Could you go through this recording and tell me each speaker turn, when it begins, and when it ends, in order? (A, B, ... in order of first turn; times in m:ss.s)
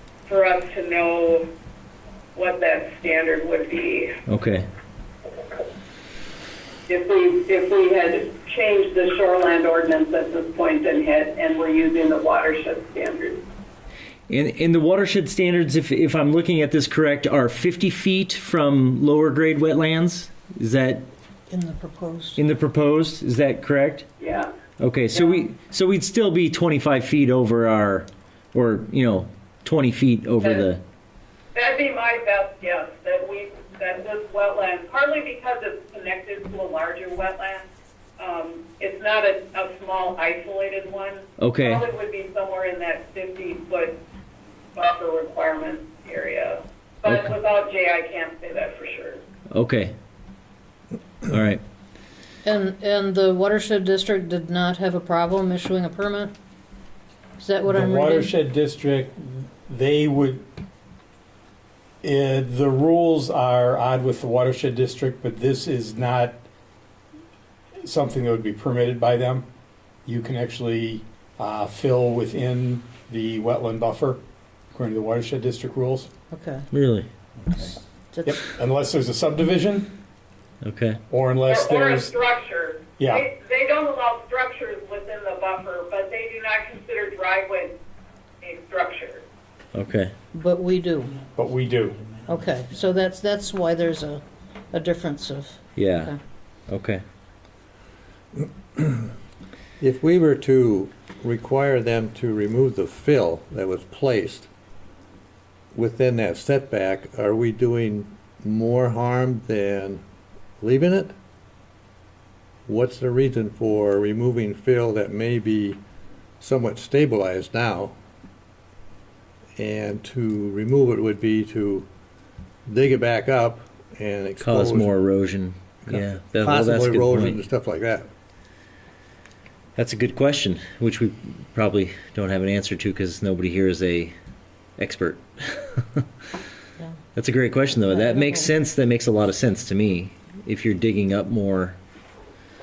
0:00.3-0:01.4 A
0:02.3-0:04.2 A
0:04.2-0:04.6 B
0:06.9-0:13.4 A
0:14.3-0:21.1 B
0:21.5-0:22.4 C
0:22.4-0:24.1 B
0:24.2-0:24.5 A
0:24.8-0:30.8 B
0:31.5-0:37.6 A
0:38.2-0:44.0 A
0:41.4-0:41.9 B
0:44.7-0:49.2 A
0:47.0-0:47.3 B
0:49.5-0:49.9 B
0:51.2-0:51.6 B
0:52.4-0:56.3 C
0:57.4-0:58.3 C
0:57.7-1:00.4 D
1:02.0-1:06.4 D
1:07.8-1:09.4 D
1:10.0-1:14.2 D
1:14.7-1:16.1 D
1:16.3-1:16.6 C
1:16.7-1:17.1 B
1:18.1-1:18.4 C
1:18.2-1:19.9 D
1:20.6-1:21.0 B
1:21.1-1:22.1 D
1:21.5-1:27.7 A
1:28.4-1:29.2 A
1:29.7-1:30.1 B
1:30.4-1:31.2 C
1:31.4-1:32.0 D
1:32.2-1:36.1 C
1:35.8-1:36.1 B
1:36.7-1:37.0 B
1:38.8-1:39.0 E
1:39.8-1:44.5 E
1:45.7-1:50.0 E
1:50.6-1:51.1 E
1:52.7-1:55.8 E
1:56.4-1:57.9 E
1:59.6-2:01.9 E
2:02.7-2:04.9 E
2:04.4-2:07.4 B
2:05.8-2:08.1 E
2:09.8-2:14.1 B
2:14.8-2:16.0 B
2:17.1-2:21.8 B
2:17.9-2:18.5 C